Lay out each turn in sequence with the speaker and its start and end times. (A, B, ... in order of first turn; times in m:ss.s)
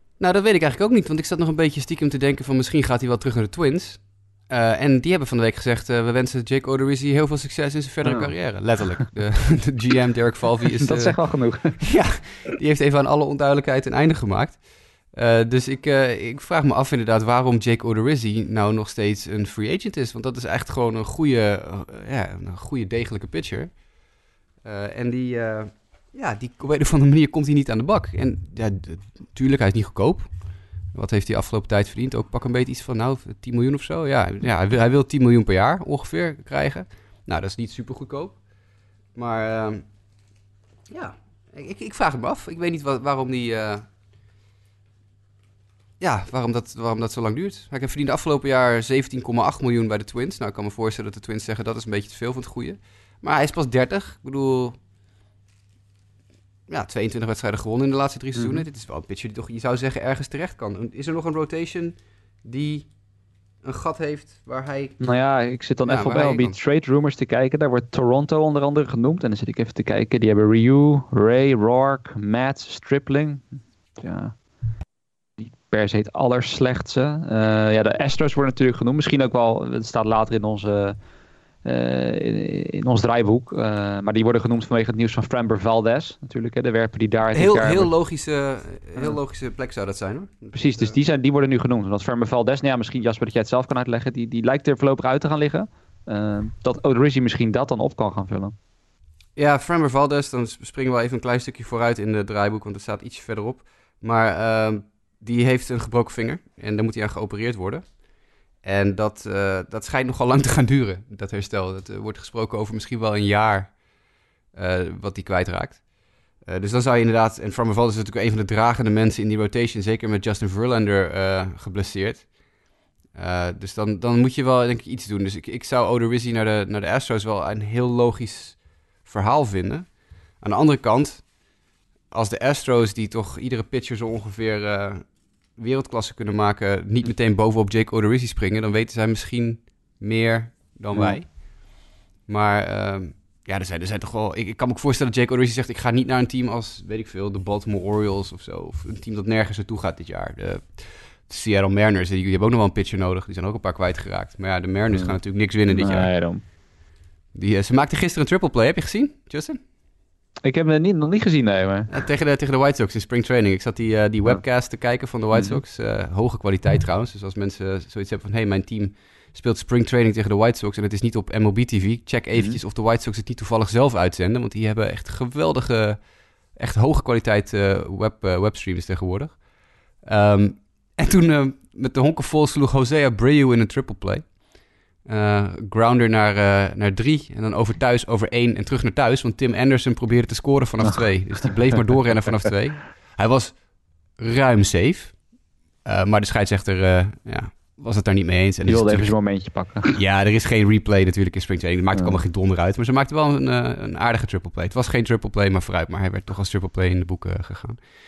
0:00.2-0:11.2 A
0:08.0-0:08.3 B
0:10.8-0:11.8 B
0:11.8-0:23.8 A
0:24.6-0:30.3 A
0:30.9-0:38.4 A
0:39.1-0:39.8 A
0:40.9-0:43.9 A
0:46.0-0:54.8 A
0:56.7-1:02.9 A
0:58.3-0:58.6 B
1:03.6-1:05.0 A
1:05.0-1:13.4 B
1:05.9-1:06.5 A
1:14.0-1:14.3 B
1:15.4-1:21.0 B
1:21.6-1:27.9 B
1:27.3-1:31.0 A
1:30.5-1:38.5 B
1:39.4-1:48.0 A
1:48.6-1:53.8 A
1:54.5-1:55.8 A
1:56.4-2:02.3 A
2:03.1-2:11.3 A
2:12.1-2:36.1 A
2:20.9-2:21.2 B
2:34.9-2:35.2 B
2:35.7-2:36.4 B
2:37.3-2:39.6 A
2:40.4-2:41.9 B
2:41.9-2:56.0 A
2:45.3-2:45.6 B
2:52.3-2:52.6 B
2:56.5-2:59.4 A
3:00.0-3:04.4 A
3:05.0-3:13.6 A
3:14.2-3:15.2 A
3:15.8-3:19.2 A
3:18.6-3:19.9 B
3:19.9-3:27.8 A
3:22.0-3:22.2 B